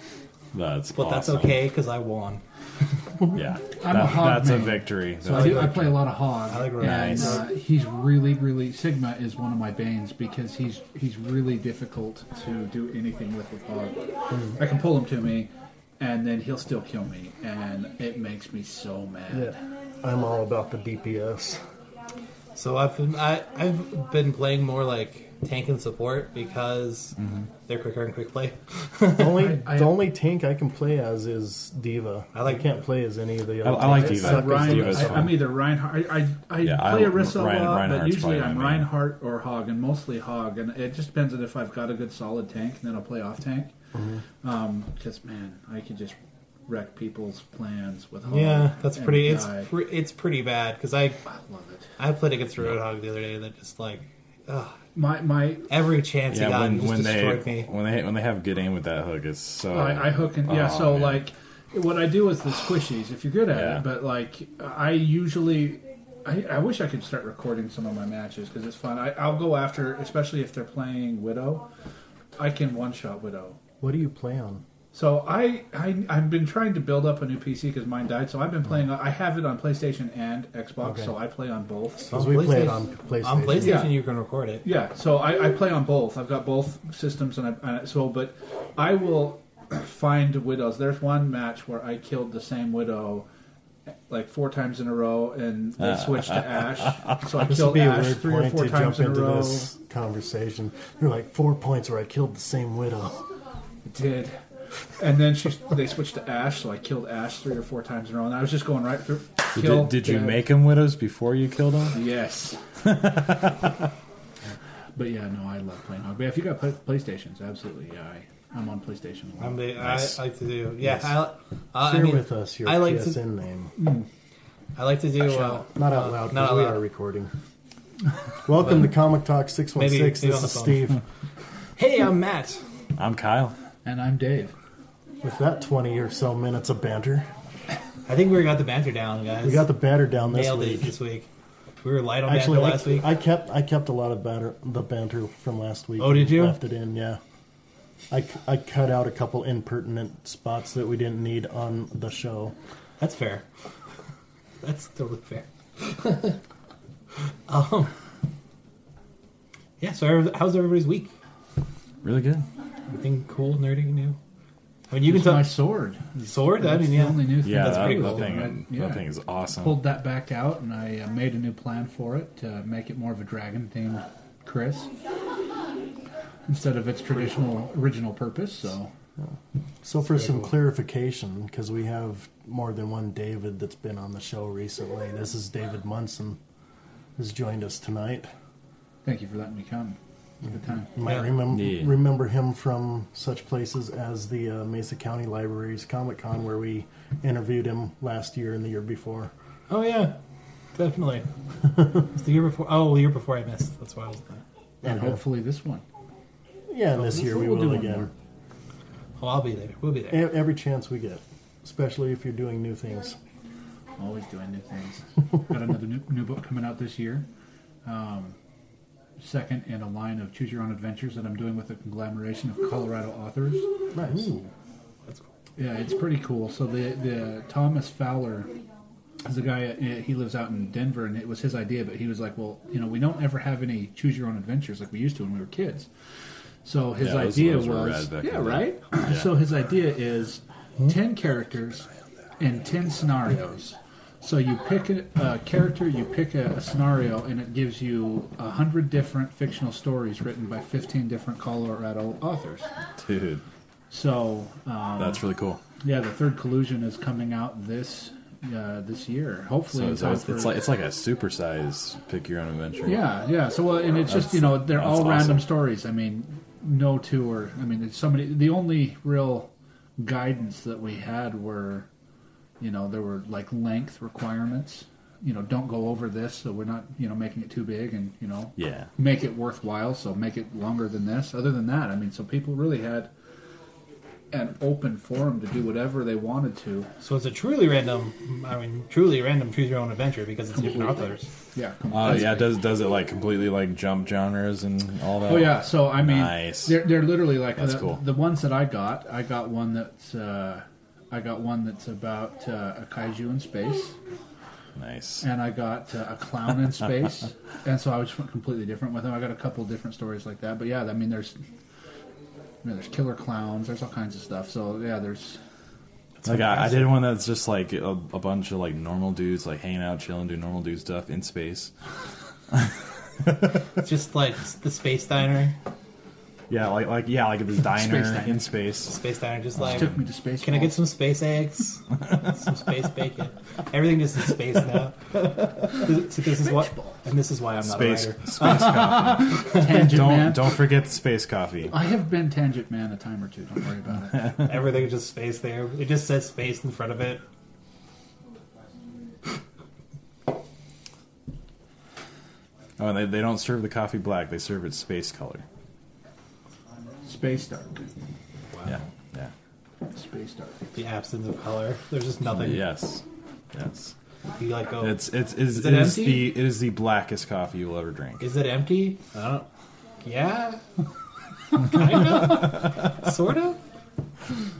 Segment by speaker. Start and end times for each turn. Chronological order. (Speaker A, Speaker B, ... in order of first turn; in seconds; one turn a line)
Speaker A: 0.5-1.6
Speaker B: 0.9-2.4
Speaker A: 3.3-6.1
Speaker C: 3.8-19.6
Speaker D: 5.3-5.7
Speaker B: 6.5-7.4
Speaker A: 6.8-7.4
Speaker D: 14.3-14.6
Speaker D: 19.3-21.6
Speaker B: 22.5-29.5
Speaker A: 27.2-27.5
Speaker D: 29.2-35.4
Speaker C: 29.3-30.0
Speaker B: 32.3-32.7
Speaker A: 33.6-35.5
Speaker C: 33.8-43.7
Speaker A: 36.6-38.9
Speaker D: 43.9-44.2
Speaker C: 44.4-49.7
Speaker B: 48.2-51.2
Speaker C: 51.3-51.9
Speaker B: 52.0-54.8
Speaker C: 54.9-55.7
Speaker B: 55.7-57.7
Speaker A: 56.3-61.2
Speaker C: 59.7-71.7
Speaker A: 63.5-63.9
Speaker C: 72.4-73.6
Speaker D: 73.8-74.6
Speaker C: 74.9-82.2
Speaker D: 80.8-81.1
Speaker D: 82.1-83.9
Speaker B: 82.1-84.7
Speaker C: 83.6-84.0
Speaker C: 84.6-93.3
Speaker C: 94.1-99.7
Speaker A: 95.8-96.7
Speaker D: 97.4-103.2
Speaker C: 103.8-104.4
Speaker C: 105.0-110.5
Speaker A: 109.5-112.0
Speaker C: 111.9-112.6
Speaker A: 112.8-113.9
Speaker C: 115.0-120.1
Speaker B: 119.4-123.2
Speaker D: 121.7-123.7
Speaker C: 123.8-124.0
Speaker B: 124.8-126.8
Speaker D: 125.2-127.3
Speaker D: 128.4-131.0
Speaker B: 129.8-131.0
Speaker B: 131.8-132.6
Speaker A: 133.0-133.6
Speaker C: 133.8-134.5
Speaker D: 135.2-137.3
Speaker B: 138.1-139.7
Speaker D: 139.4-140.9
Speaker B: 140.2-141.3
Speaker B: 141.8-143.1
Speaker D: 142.2-147.2
Speaker B: 146.0-146.6
Speaker D: 148.1-152.5
Speaker B: 153.0-153.4
Speaker B: 154.6-156.4
Speaker B: 157.5-157.9
Speaker B: 159.8-161.1
Speaker A: 162.0-162.4
Speaker B: 162.9-164.2
Speaker B: 164.9-165.6
Speaker C: 165.1-169.1
Speaker B: 166.2-168.3
Speaker A: 167.4-169.8
Speaker C: 169.6-174.9
Speaker C: 176.5-178.9
Speaker D: 179.2-186.4
Speaker D: 187.2-188.3
Speaker C: 189.0-190.0
Speaker D: 190.5-199.3
Speaker C: 190.5-190.8
Speaker B: 191.0-191.3
Speaker A: 191.5-192.0
Speaker B: 199.7-200.2
Speaker B: 200.7-201.3
Speaker B: 201.9-204.4
Speaker D: 204.8-205.2
Speaker C: 204.8-205.8
Speaker D: 206.7-208.1
Speaker C: 206.9-208.1
Speaker B: 209.2-210.3
Speaker D: 210.1-213.2
Speaker C: 214.0-217.3
Speaker C: 217.8-218.3
Speaker C: 219.2-223.7
Speaker D: 223.9-224.4
Speaker C: 225.6-228.5
Speaker C: 229.2-235.9
Speaker C: 236.6-241.9
Speaker A: 237.0-239.3
Speaker C: 242.4-252.7
Speaker A: 253.0-253.4
Speaker C: 253.9-255.2
Speaker A: 255.0-255.6
Speaker C: 255.8-260.6
Speaker A: 259.7-263.0
Speaker C: 262.8-271.9
Speaker A: 264.1-265.5
Speaker C: 272.6-283.1
Speaker A: 278.6-278.9
Speaker C: 284.3-286.9
Speaker B: 287.0-291.3
Speaker C: 290.5-292.6
Speaker A: 291.9-296.9
Speaker C: 295.2-303.9
Speaker A: 297.6-298.0
Speaker A: 304.8-305.2
Speaker C: 305.2-311.4
Speaker C: 312.6-315.4
Speaker B: 316.2-316.9
Speaker A: 316.2-321.7
Speaker B: 323.8-325.5
Speaker A: 326.5-328.9
Speaker C: 327.6-328.5
Speaker B: 328.9-339.6
Speaker A: 329.6-330.0
Speaker C: 329.7-330.8
Speaker A: 337.6-341.7
Speaker C: 338.9-340.6
Speaker C: 341.7-344.4
Speaker B: 344.4-347.2
Speaker A: 352.8-355.4
Speaker C: 357.0-357.9
Speaker A: 358.6-359.3
Speaker C: 359.9-360.7
Speaker B: 360.7-362.6
Speaker A: 362.3-363.9
Speaker B: 364.4-366.3
Speaker A: 364.8-368.2
Speaker B: 368.2-369.5
Speaker B: 370.0-370.6
Speaker B: 371.5-373.6